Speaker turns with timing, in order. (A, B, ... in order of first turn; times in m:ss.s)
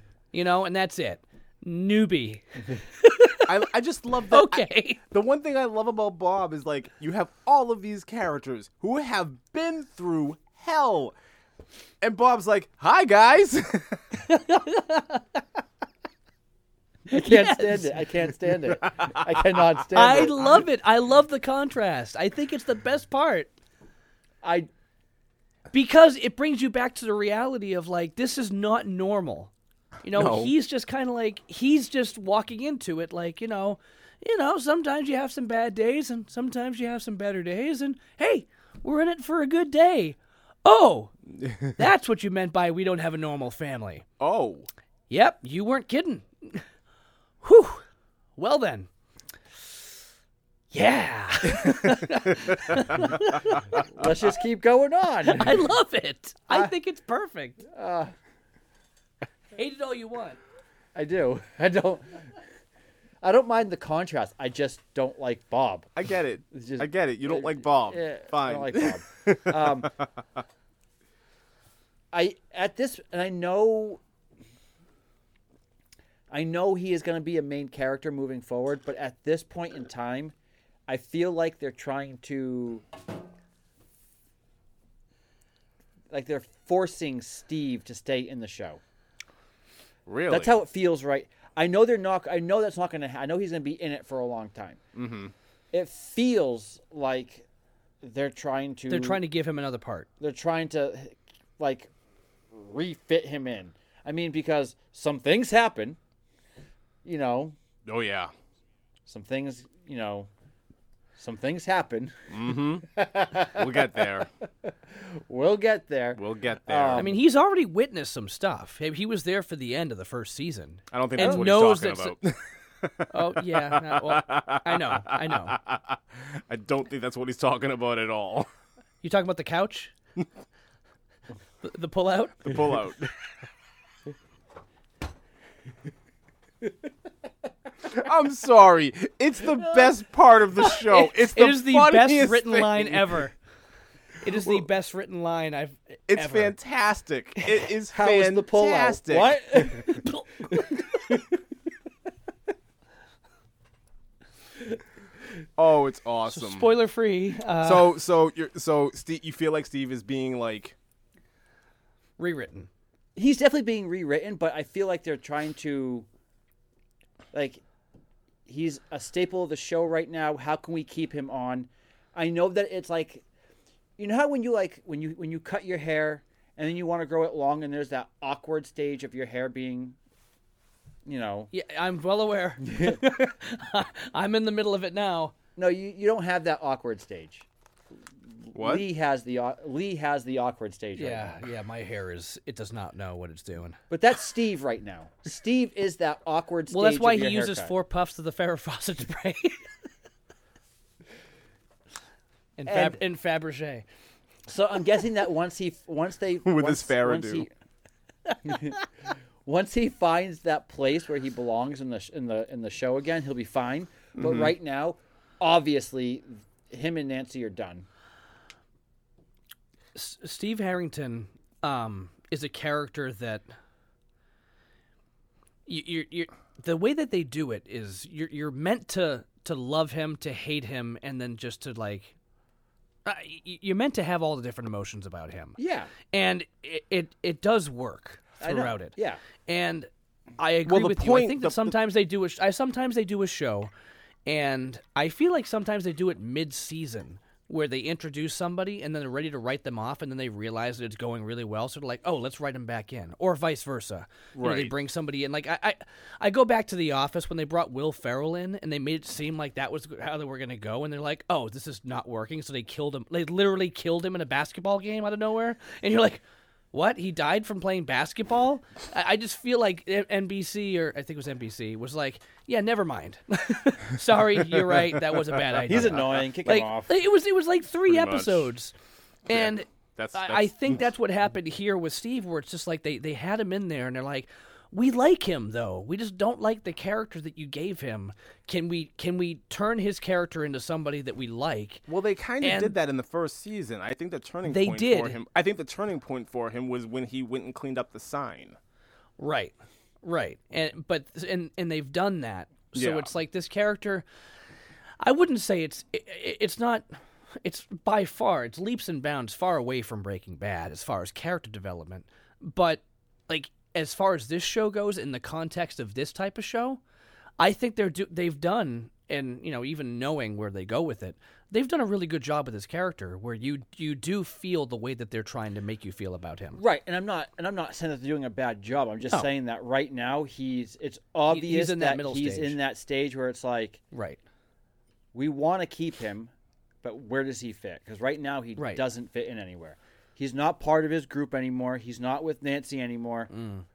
0:00.3-0:03.5 A
0:03.5-0:11.1 B
0:04.3-0:05.0 A
0:12.0-0:14.2 B
0:14.3-0:15.2 A
0:17.1-0:18.0 A
0:17.1-0:20.6 C
0:19.0-0:19.6 B
0:19.9-0:23.5 A
0:24.4-0:24.7 C
0:25.7-0:29.5 A
0:30.0-0:41.2 A
0:30.1-0:30.5 B
0:41.4-0:41.7 B
0:41.8-0:44.0 A
0:44.2-0:44.7 B
0:45.1-0:46.6 A
0:47.4-0:47.8 A
0:48.4-0:48.9 A
0:50.7-0:53.7 A
0:52.5-0:52.9 B
0:53.7-0:55.7 C
0:55.2-0:57.6 A
0:57.7-0:58.1 C
0:59.6-1:00.4 A
1:01.0-1:02.3 C
1:03.2-1:05.9 C
1:06.0-1:10.1 B
1:06.5-1:09.9 C
1:12.1-1:14.0 C
1:16.3-1:20.3 C
1:20.9-1:22.8 C
1:26.1-1:28.8 C
1:30.1-1:30.6 B
1:30.3-1:34.8 C
1:35.0-1:35.3 B
1:35.7-1:37.4 C
1:38.0-1:39.2 C
1:38.9-1:40.1 A
1:40.2-1:41.9 C
1:42.5-1:46.0 C
1:47.0-1:47.6 C
1:47.8-1:48.3 B
1:49.1-1:50.3 C
1:51.2-1:57.2 C
1:52.3-1:52.9 B
1:53.4-1:54.3 B
1:56.2-1:57.1 B
1:57.0-2:02.2 A
2:00.9-2:08.5 B
2:01.2-2:01.5 C
2:03.1-2:05.6 A
2:09.0-2:09.9 A
2:11.6-2:12.8 A
2:12.4-2:13.1 B
2:17.8-2:23.2 B
2:20.9-2:23.4 A
2:24.2-2:26.6 A
2:24.4-2:24.7 B
2:26.1-2:29.4 B
2:27.9-2:31.4 C
2:29.8-2:31.2 A
2:35.6-2:36.7 B
2:36.3-2:37.9 A
2:37.6-2:40.8 B
2:42.2-2:42.7 A
2:43.2-2:46.1 C
2:47.3-2:47.6 C
2:48.5-2:53.2 C
2:54.0-3:00.0 C
3:01.0-3:01.5 C
3:01.5-3:05.4 A
3:02.7-3:03.2 C
3:05.6-3:07.5 C
3:08.5-3:11.4 C
3:08.5-3:08.9 B
3:11.0-3:13.8 A
3:13.9-3:17.7 C
3:16.7-3:19.7 A
3:22.6-3:23.8 A
3:22.7-3:23.0 C
3:24.5-3:27.5 C
3:26.4-3:27.5 B
3:28.4-3:28.8 C
3:29.4-3:37.9 C
3:34.2-3:34.5 B
3:40.0-3:43.4 A
3:45.7-3:52.2 A
3:53.1-4:03.7 A
3:55.6-3:55.9 C
3:58.4-3:59.2 C
4:00.6-4:01.7 B
4:04.3-4:38.7 A
4:14.4-4:14.7 B
4:34.4-4:36.1 B
4:35.7-4:37.0 C
4:37.9-4:38.5 B
4:39.3-4:51.9 A
4:39.3-4:40.8 B
4:51.9-4:58.6 B
4:52.4-4:52.8 A
4:54.5-4:55.2 A
4:59.2-5:04.0 A
5:02.8-5:03.1 B
5:05.0-5:06.8 A
5:07.4-5:16.8 A
5:17.4-5:26.6 A
5:26.6-5:33.8 C
5:31.3-5:32.6 A
5:33.9-5:34.2 A
5:35.1-5:36.3 C
5:36.8-5:43.3 C
5:38.6-5:38.8 A
5:43.3-5:43.6 A